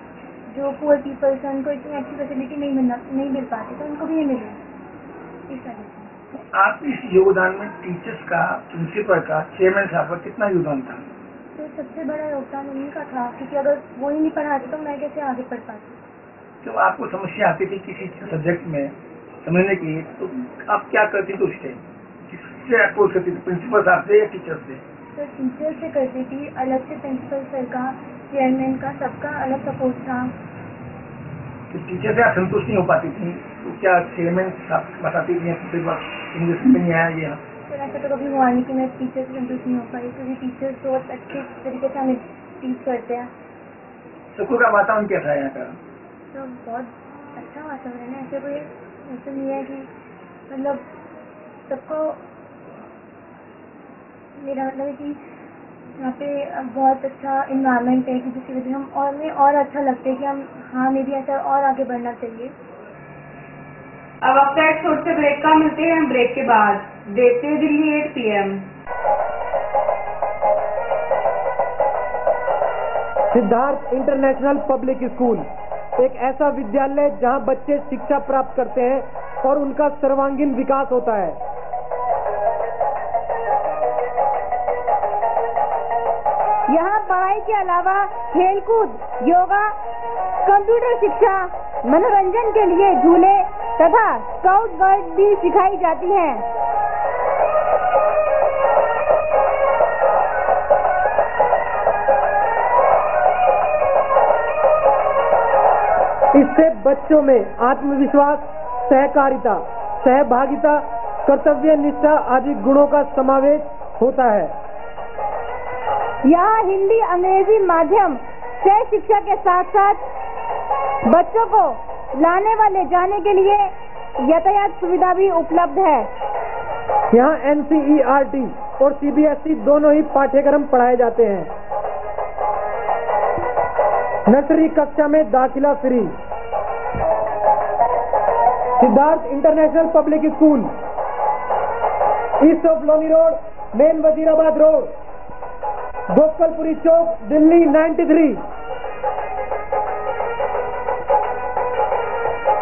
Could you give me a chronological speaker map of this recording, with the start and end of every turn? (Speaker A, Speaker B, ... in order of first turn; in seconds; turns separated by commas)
Speaker A: 0.5-4.6, Speaker A: 5.5-6.1, Speaker B: 6.3-11.1, Speaker A: 11.6-16.0, Speaker B: 16.6-24.8, Speaker A: 25.1-30.3, Speaker B: 31.7-37.4, Speaker A: 37.7-43.3, Speaker B: 44.3-45.8, Speaker A: 46.3-49.9, Speaker A: 50.5-50.9, Speaker A: 51.7-52.2, Speaker A: 54.4-55.2, Speaker A: 56.0-62.5, Speaker C: 64.2-68.7, Speaker D: 73.3-75.5, Speaker D: 76.0-81.4, Speaker E: 86.7-89.8, Speaker E: 90.5-96.4, Speaker D: 106.3-114.5, Speaker E: 116.2-120.0, Speaker E: 121.1-126.1, Speaker D: 127.1-131.5, Speaker D: 134.3-136.1, Speaker D: 138.8-140.7, Speaker D: 142.4-144.9, Speaker D: 146.1-148.4